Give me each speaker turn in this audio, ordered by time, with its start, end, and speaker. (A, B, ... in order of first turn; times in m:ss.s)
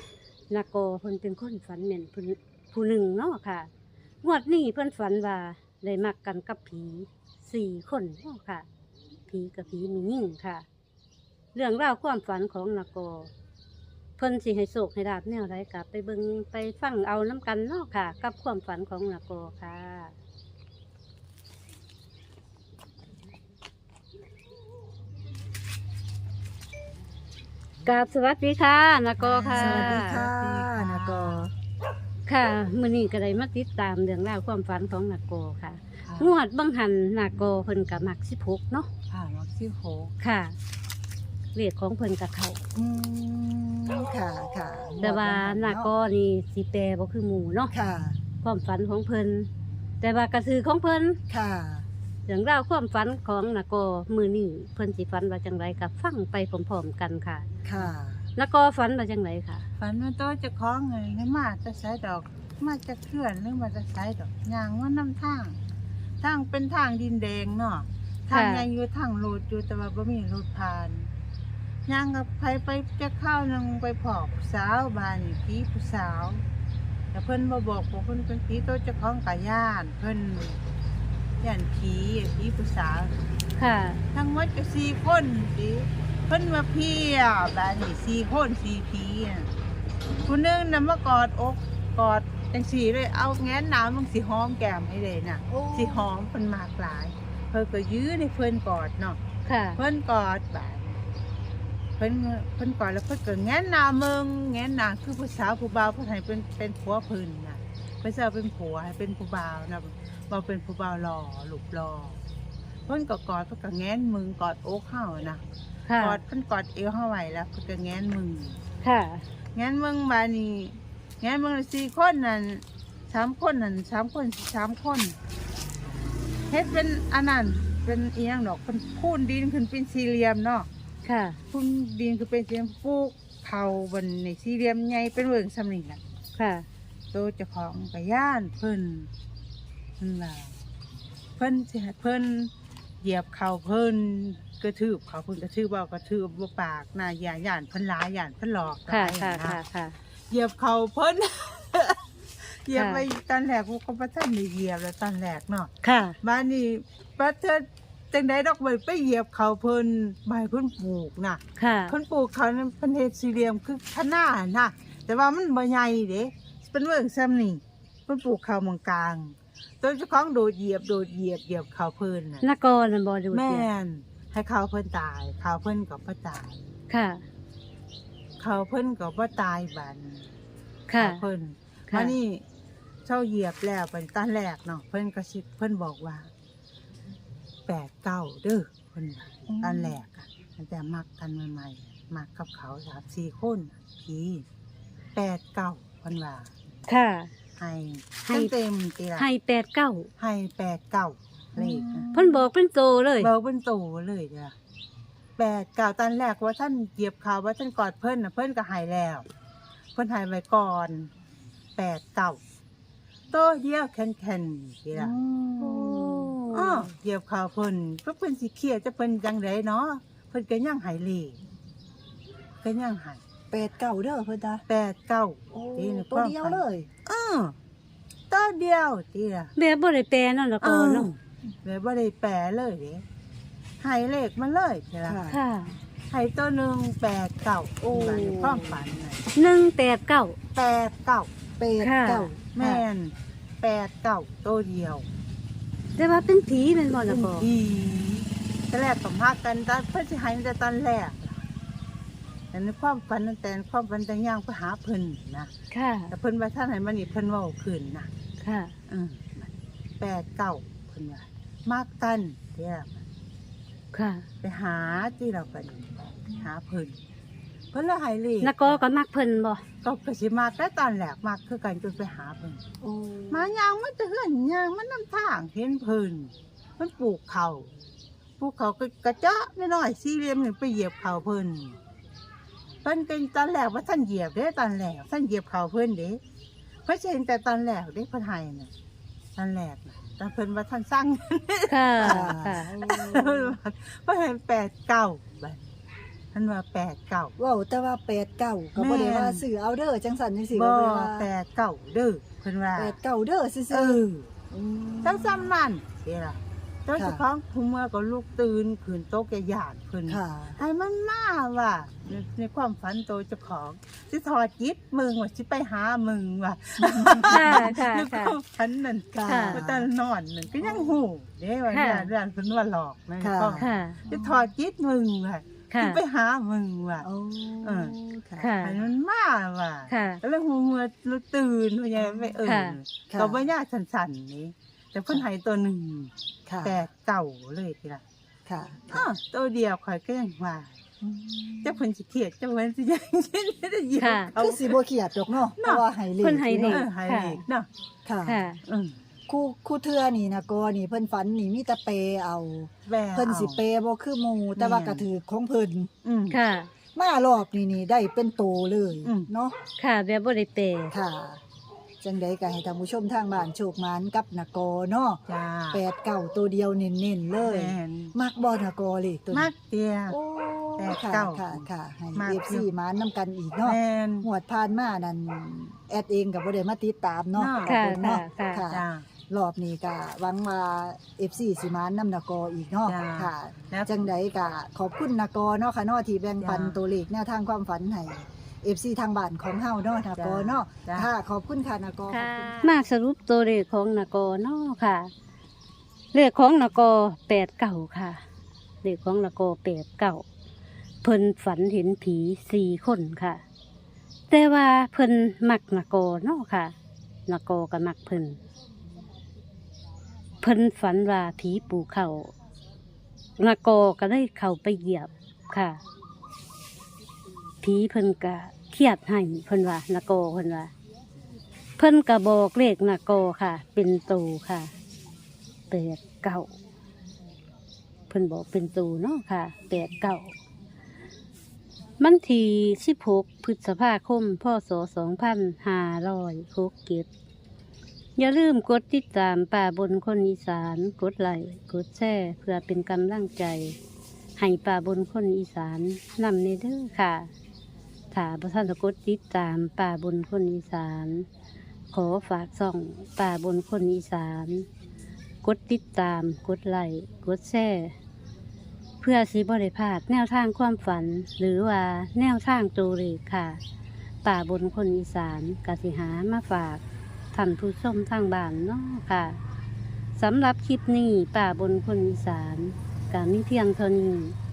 0:00.5-0:03.7 A
0:04.2-0:08.7 A
0:09.3-0:10.6 A
0:11.5-0:13.3 A
0:14.2-0:20.1 A
0:27.8-0:30.2 A
0:29.2-0:31.5 B
0:29.5-0:31.5 C
0:32.3-0:38.9 A
0:36.0-0:36.3 B
0:39.1-0:40.1 B
0:40.2-0:40.6 A
0:41.6-0:42.6 A
0:42.8-0:45.9 C
0:45.0-0:47.7 A
0:47.7-0:48.2 C
0:48.4-0:49.5 A
0:50.0-0:51.2 A
0:51.3-0:51.9 C
0:52.3-0:57.4 A
0:57.6-0:58.2 C
0:58.4-0:59.7 A
0:59.8-1:05.6 B
1:06.2-1:11.1 B
1:08.3-1:08.7 A
1:11.9-1:16.4 B
1:17.1-1:20.6 B
1:21.4-1:23.2 B
1:23.6-1:24.0 A
1:24.1-1:29.5 B
1:30.3-1:39.2 B
1:35.5-1:36.1 C
1:39.4-1:39.8 A
1:39.8-1:41.0 B
1:42.0-1:52.2 B
1:52.9-1:55.4 B
1:55.9-1:56.2 A
1:56.0-1:58.6 B
1:58.8-1:59.2 A
1:59.6-2:05.2 B
2:06.5-2:10.7 B
2:11.0-2:11.4 A
2:11.5-2:16.0 B
2:16.4-2:16.7 A
2:17.1-2:19.1 B
2:20.0-2:20.6 B
2:21.4-2:29.6 B
2:28.9-2:30.0 A
2:30.3-2:35.7 B
2:32.7-2:33.1 A
2:35.8-2:36.2 A
2:36.2-2:52.4 B
2:41.6-2:41.9 A
2:52.4-2:53.7 A
2:53.3-2:56.6 B
2:56.9-2:57.2 A
2:58.4-3:00.3 B
3:00.9-3:01.2 A
3:01.0-3:02.4 B
3:03.1-3:06.3 B
3:07.7-3:14.5 B
3:09.5-3:10.0 C
3:15.2-3:16.5 B
3:16.9-3:17.3 A
3:17.6-3:19.3 B
3:18.3-3:18.5 A
3:19.2-3:20.1 A
3:20.2-3:22.1 B
3:21.6-3:22.4 C
3:22.1-3:23.3 A
3:23.2-3:24.6 B
3:25.4-3:29.2 B
3:30.0-3:31.1 B
3:31.8-3:32.4 B
3:33.3-3:35.2 B
3:34.9-3:36.9 C
3:35.8-3:36.6 A
3:36.5-3:41.4 B
3:42.6-3:43.2 B
3:43.5-3:44.6 C
3:44.7-3:47.6 B
3:45.5-3:46.9 C
3:48.3-3:49.5 B
3:49.6-3:51.1 A
3:50.6-3:53.0 B
3:53.8-3:55.2 B
3:55.0-3:55.4 C
3:55.3-3:55.8 A
3:56.1-3:59.3 B
3:57.9-3:58.5 A
3:59.4-4:00.4 A
4:00.6-4:01.3 B
4:01.6-4:02.8 C
4:01.8-4:02.3 A
4:02.6-4:05.1 B
4:06.0-4:07.5 A
4:07.0-4:11.5 B
4:12.5-4:15.5 B
4:15.7-4:16.1 A
4:16.1-4:18.1 B
4:18.4-4:18.7 A
4:18.9-4:23.0 B
4:23.9-4:24.2 A
4:24.4-4:27.0 B
4:27.7-4:28.8 B
4:28.4-4:29.6 A
4:29.8-4:32.6 B
4:32.8-4:33.4 C
4:33.3-4:37.7 B
4:38.4-4:41.8 B
4:42.8-4:46.2 B
4:46.8-4:48.7 B
4:49.4-4:55.6 B
4:51.7-4:52.7 A
4:52.0-4:53.6 C
4:56.3-4:57.3 B
4:57.4-5:01.3 C
4:58.8-4:59.4 B
5:00.5-5:03.0 B
5:02.8-5:05.5 C
5:03.7-5:04.4 B
5:05.0-5:27.1 B
5:07.0-5:07.2 C
5:10.1-5:10.6 C
5:16.8-5:17.8 C
5:17.3-5:18.4 A
5:19.1-5:19.9 C
5:19.2-5:19.6 A
5:20.6-5:20.9 C
5:21.7-5:22.1 A
5:23.2-5:24.4 C
5:23.6-5:24.0 A
5:25.7-5:26.0 A
5:27.0-5:28.6 C
5:27.6-5:28.0 B
5:28.4-5:28.8 A
5:28.6-5:36.1 B
5:29.9-5:30.2 A
5:32.0-5:32.3 C
5:32.4-5:32.8 A
5:33.1-5:33.4 C
5:36.5-5:36.8 C
5:36.6-5:38.0 B
5:38.5-5:39.1 C
5:38.9-5:40.8 B
5:41.0-5:41.8 C
5:41.6-5:44.8 B
5:44.0-5:44.3 A
5:44.3-5:46.8 C
5:45.6-5:45.8 B
5:46.2-5:47.4 A
5:46.6-5:47.7 B
5:48.0-5:48.4 C
5:48.2-5:48.6 A
5:48.6-5:49.0 B
5:49.3-5:55.9 C
5:52.9-5:53.6 B
5:54.6-5:55.1 B
5:56.0-5:56.4 B
5:56.3-5:56.7 A
5:56.9-5:59.6 C
5:59.0-5:59.3 B
5:59.8-6:00.9 A
6:00.9-6:01.4 C
6:02.0-6:09.5 C
6:05.3-6:05.8 B
6:07.4-6:08.1 B
6:09.3-6:10.2 B
6:10.1-6:32.7 C
6:10.8-6:12.7 B
6:13.6-6:14.3 B
6:17.3-6:17.8 B
6:17.6-6:18.6 A
6:18.7-6:19.1 B
6:22.9-6:23.9 B
6:26.4-6:26.8 B
6:30.2-6:31.1 B
6:32.1-6:35.1 A
6:36.1-6:38.2 A
6:38.8-6:40.2 A
6:41.0-6:43.4 A
6:44.3-6:46.7 A
6:47.3-6:48.4 A
6:50.4-6:52.3 A
6:53.4-6:55.8 A
6:57.6-7:00.7 A
7:01.8-7:04.7 A
7:05.7-7:06.5 A
7:08.1-7:10.3 A
7:12.0-7:17.1 A
7:18.2-7:23.8 A
7:24.4-7:27.3 A
7:28.1-7:31.3 A
7:31.9-7:34.6 A
7:35.4-7:37.9 A
7:39.0-7:43.6 A
7:44.2-7:46.8 A
7:47.3-7:49.4 A
7:50.2-7:54.3 A